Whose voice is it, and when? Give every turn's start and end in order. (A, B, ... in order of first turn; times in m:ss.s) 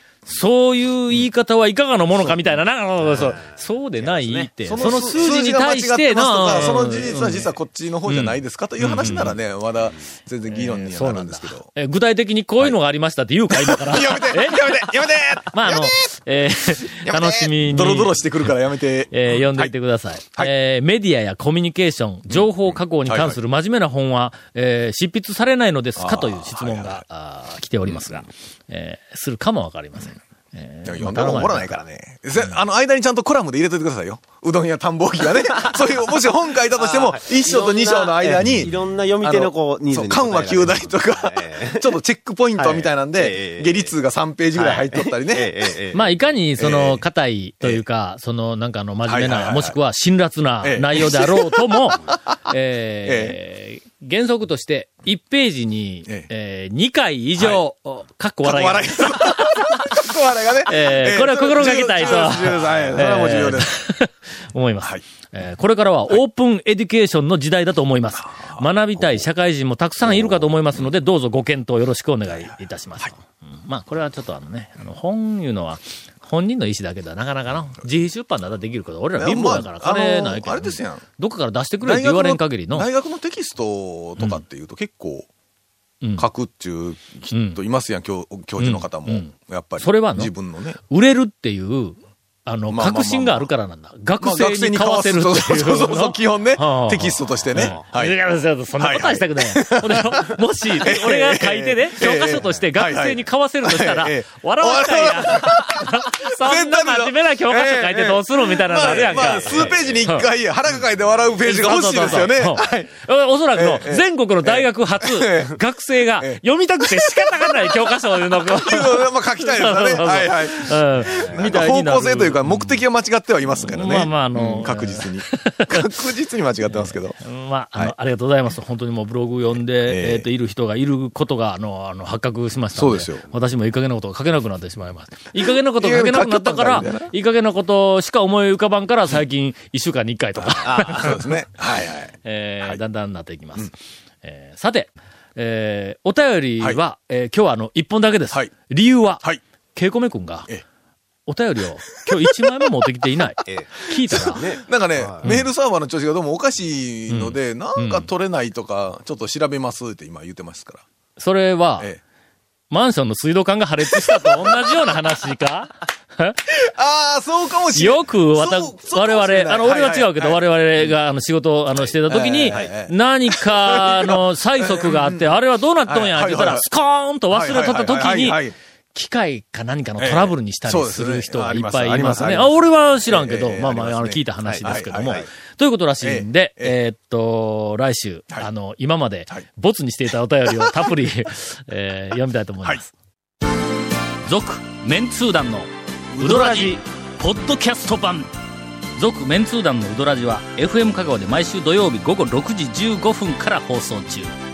0:00.3-0:07.5 A
0:03.0-0:05.3 B
0:04.7-0:11.7 C
0:08.1-0:09.4 A
0:10.5-0:18.6 A
0:13.5-0:16.1 C
0:17.0-0:19.7 C
0:19.1-0:31.8 A
0:22.3-0:23.4 C
0:26.0-0:27.0 C
0:27.8-0:28.2 C
0:30.8-0:45.7 C
0:36.8-0:42.0 B
0:42.6-0:43.9 B
0:44.6-0:46.1 B
0:45.9-0:59.9 A
0:46.6-0:47.0 C
0:49.1-0:49.8 C
0:50.6-0:52.4 C
0:53.0-0:53.4 C
0:57.4-0:57.6 C
0:58.4-1:03.7 C
1:00.7-1:22.9 A
1:08.3-1:09.3 C
1:10.0-1:10.4 C
1:19.2-1:21.0 C
1:21.8-1:25.3 C
1:24.2-1:24.4 A
1:26.2-1:30.8 C
1:27.3-1:27.6 A
1:28.6-1:50.3 A
1:32.7-1:33.5 C
1:34.2-1:38.2 C
1:38.8-1:52.9 C
1:48.8-1:50.1 B
1:51.4-2:02.8 A
1:53.5-1:55.6 C
1:56.2-2:07.2 C
2:01.2-2:01.5 B
2:03.5-2:05.8 A
2:06.6-2:21.4 A
2:09.9-2:10.3 C
2:12.8-2:13.2 C
2:15.4-2:17.1 C
2:20.4-2:22.8 C
2:22.2-2:30.5 A
2:31.3-2:34.4 A
2:33.5-2:35.3 B
2:34.1-2:40.8 C
2:35.2-2:35.5 A
2:37.1-2:38.1 A
2:41.2-2:41.9 A
2:42.7-2:46.4 A
2:43.9-2:44.6 C
2:46.5-2:51.0 C
2:47.8-3:12.9 A
2:51.8-2:56.7 C
2:57.3-2:58.5 C
3:00.0-3:05.3 C
3:04.4-3:05.3 B
3:06.0-3:06.8 C
3:10.5-3:10.8 C
3:14.3-3:18.3 A
3:16.2-3:16.6 C
3:16.2-3:16.8 B
3:19.0-3:24.3 A